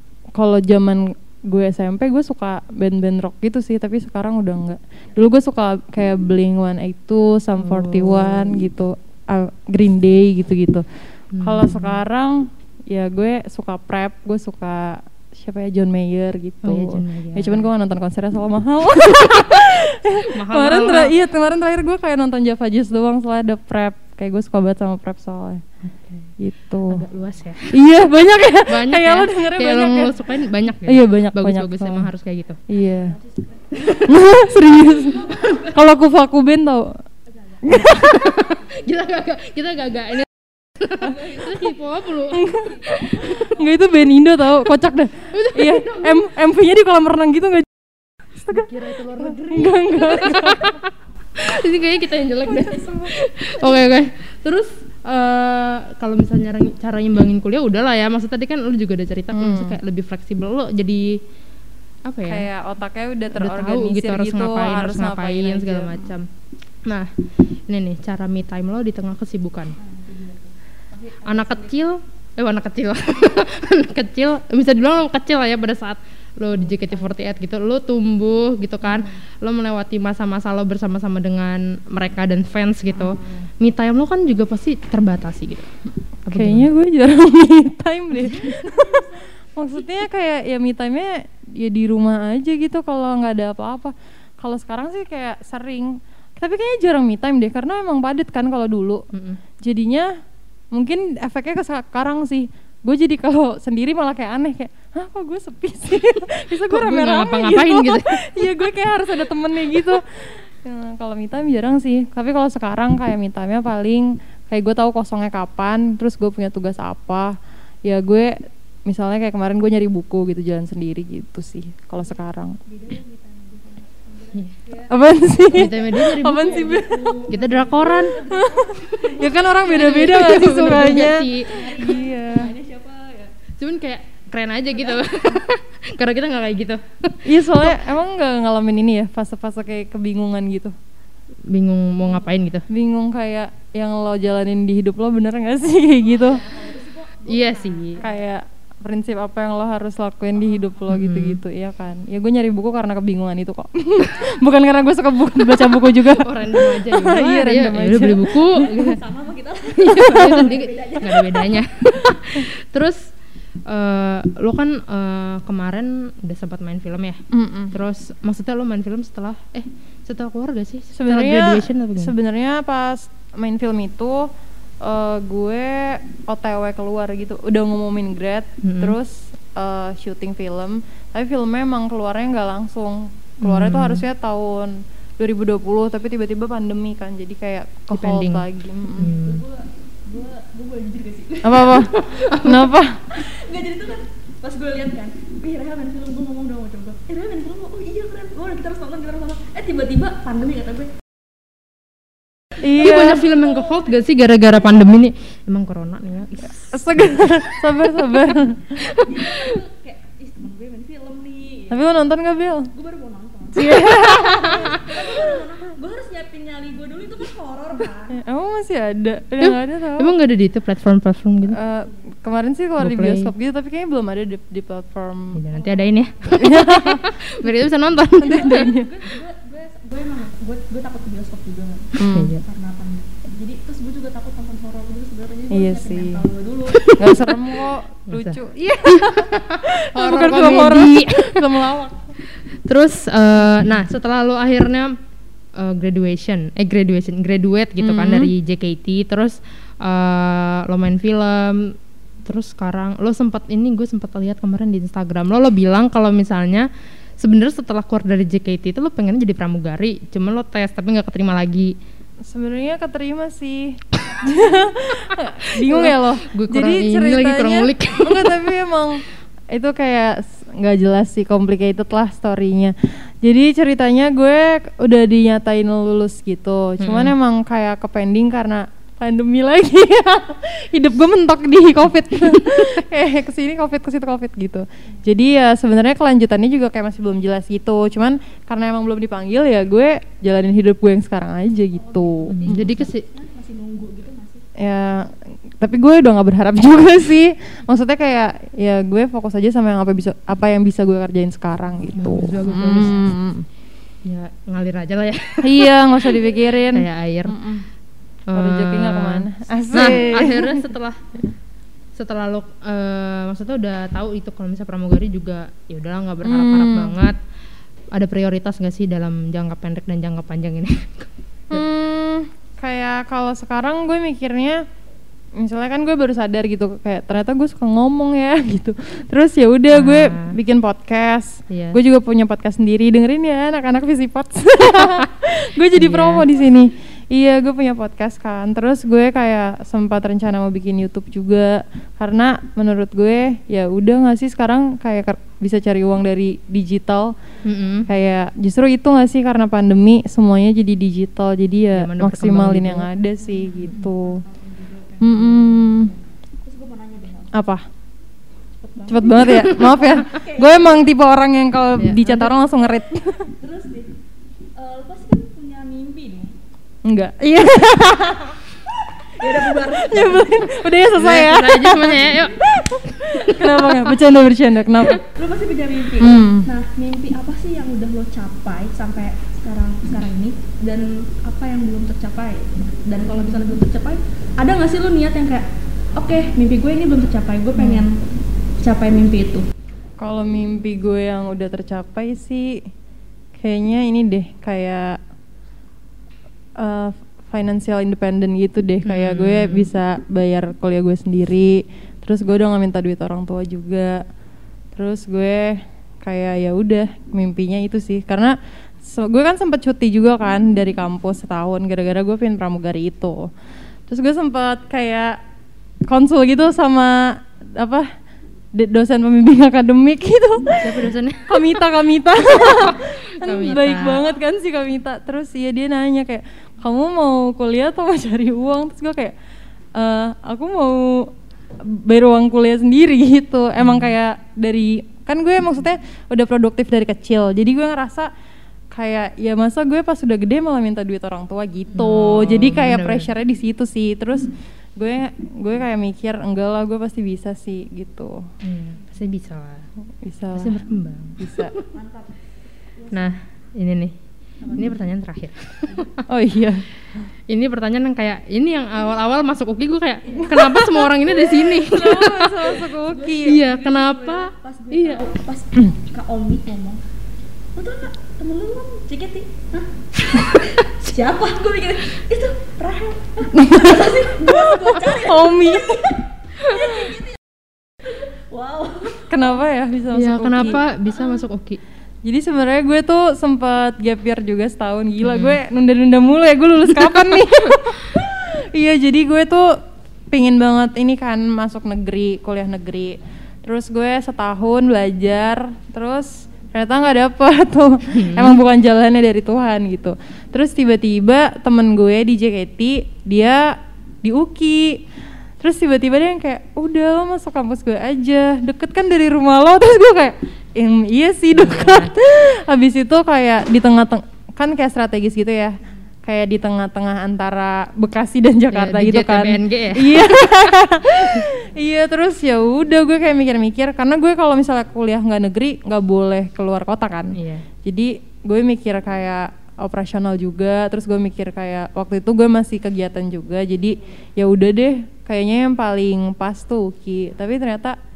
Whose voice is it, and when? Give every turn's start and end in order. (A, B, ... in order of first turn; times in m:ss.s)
0:00.4-0:10.8 A
0:07.6-0:08.5 B
0:11.3-0:12.0 B
0:11.4-0:25.6 A
0:16.6-0:17.7 B
0:19.1-0:21.1 B
0:26.0-0:26.3 B
0:26.4-0:27.0 A
0:26.9-0:27.8 B
0:27.7-0:30.3 A
0:28.7-0:32.6 B
0:30.8-0:32.1 A
0:32.7-0:33.2 A
0:32.9-0:34.1 C
0:34.0-0:36.9 A
0:35.0-0:35.8 C
0:37.6-0:38.4 A
0:37.7-0:43.3 B
0:41.1-0:41.8 C
0:42.3-0:50.8 A
0:42.5-0:43.8 C
0:45.3-0:46.3 B
0:48.5-1:01.2 B
0:52.6-0:53.2 A
0:59.3-0:59.8 A
1:02.1-1:02.5 B
1:02.3-1:06.1 A
1:03.4-1:06.3 B
1:06.9-1:07.1 B
1:07.7-1:09.8 B
1:09.8-1:11.8 C
1:11.2-1:25.7 B
1:26.3-1:26.7 B
1:26.3-1:39.0 A
1:28.6-1:29.2 C
1:39.1-1:39.4 B
1:39.6-1:40.1 A
1:40.7-2:02.6 A
1:46.7-1:48.2 B
2:02.7-2:13.4 C
2:04.9-2:07.2 A
2:05.5-2:06.7 B
2:07.3-2:08.2 B
2:08.3-2:12.5 A
2:09.6-2:11.7 B
2:13.6-2:17.8 B
2:17.2-2:20.7 A
2:21.5-2:22.6 B
2:22.7-2:26.6 A
2:26.1-2:28.2 C
2:27.2-2:28.0 B
2:28.0-2:38.3 A
2:30.9-2:31.4 B
2:36.1-2:39.0 B
2:38.3-2:41.6 C
2:39.7-2:43.1 B
2:39.9-2:40.5 A
2:43.7-2:52.1 B
2:47.3-2:47.7 A
2:51.0-2:54.3 A
2:54.8-3:09.1 A
2:58.6-2:59.0 B
3:03.4-3:04.0 B
3:07.9-3:09.4 B
3:09.0-3:11.9 C
3:11.4-3:13.0 A
3:11.6-3:12.8 B
3:13.1-3:20.9 C
3:22.6-3:23.3 A
3:22.8-3:27.6 B
3:23.3-3:23.7 C
3:26.7-3:28.8 A
3:28.8-3:29.6 B
3:28.8-3:31.8 C
3:31.7-3:32.7 A
3:32.7-3:38.2 C
3:33.5-3:34.9 A
3:38.1-3:40.1 A
3:39.4-3:41.6 B
3:41.5-3:45.4 A
3:42.8-3:43.3 B
3:45.4-3:48.7 B
3:46.3-3:47.1 A
3:48.2-3:49.0 A
3:48.2-3:57.0 C
3:52.0-3:52.3 A
3:52.0-3:52.4 B
3:55.5-3:56.2 A
3:56.7-3:57.4 B
3:57.0-4:02.0 A
3:58.1-4:01.6 B
4:02.7-4:05.0 B
4:05.6-4:16.7 B
4:07.8-4:08.3 A
4:17.2-4:21.8 B
4:22.3-4:52.7 A
4:25.4-4:28.5 B
4:36.8-4:37.2 B
4:51.8-4:54.4 C
4:52.3-4:53.0 B
4:54.6-5:03.5 A
5:02.0-5:03.2 B
5:04.0-5:06.2 B
5:05.4-5:07.7 A
5:06.7-5:07.4 B
5:08.3-5:11.0 B
5:08.3-5:10.6 A
5:12.0-5:17.2 B
5:16.2-5:17.0 A
5:17.9-5:21.6 B
5:21.5-5:24.6 A
5:25.4-5:47.1 A
5:29.7-5:30.4 B
5:31.5-5:31.8 B
5:35.7-5:36.3 B
5:47.4-5:47.9 B
5:47.9-5:54.2 A
5:51.7-5:52.9 B
5:53.3-5:57.4 C
5:55.0-5:55.9 A
5:57.3-5:57.6 A
5:58.6-6:00.9 C
5:58.9-6:03.3 A
6:01.8-6:02.3 B
6:03.3-6:03.9 C
6:04.6-6:06.4 C
6:06.8-6:08.4 A
6:08.9-6:10.5 C
6:09.6-6:15.0 A
6:10.9-6:13.8 B
6:15.0-6:28.1 C
6:16.0-6:16.5 A
6:28.6-6:29.5 C
6:30.0-6:32.6 A
6:33.4-6:35.0 A
6:36.6-6:44.0 A
6:38.8-6:39.7 B
6:44.8-6:53.3 A
6:53.9-6:55.2 A
6:55.9-6:57.9 A
6:58.5-7:09.2 A
7:00.6-7:01.5 B
7:02.3-7:04.1 B
7:09.8-7:18.1 A
7:13.6-7:13.9 B
7:18.7-7:28.3 A
7:21.7-7:23.1 B
7:28.4-7:29.7 B
7:30.0-7:30.6 A
7:30.4-7:31.7 B
7:31.2-7:31.5 A
7:31.7-7:32.2 C
7:32.8-7:33.2 C
7:32.9-7:34.0 B
7:34.4-7:34.8 C
7:34.5-7:36.0 B
7:36.1-7:36.7 A
7:37.3-7:42.6 B
7:40.1-7:40.3 C
7:40.3-7:43.4 A
7:42.7-7:46.8 C
7:43.2-7:45.1 B
7:47.6-7:57.2 C
7:53.3-7:54.1 A
7:54.8-7:55.9 A
7:56.4-7:56.8 B
7:57.8-7:59.3 C
7:59.1-8:00.6 A
7:59.9-8:01.6 B
8:02.0-8:09.6 A
8:05.0-8:05.4 B
8:10.1-8:24.9 A
8:17.9-8:18.4 B
8:25.4-8:57.8 A
8:31.4-8:31.9 B
8:38.5-8:40.5 B
8:47.1-8:47.5 B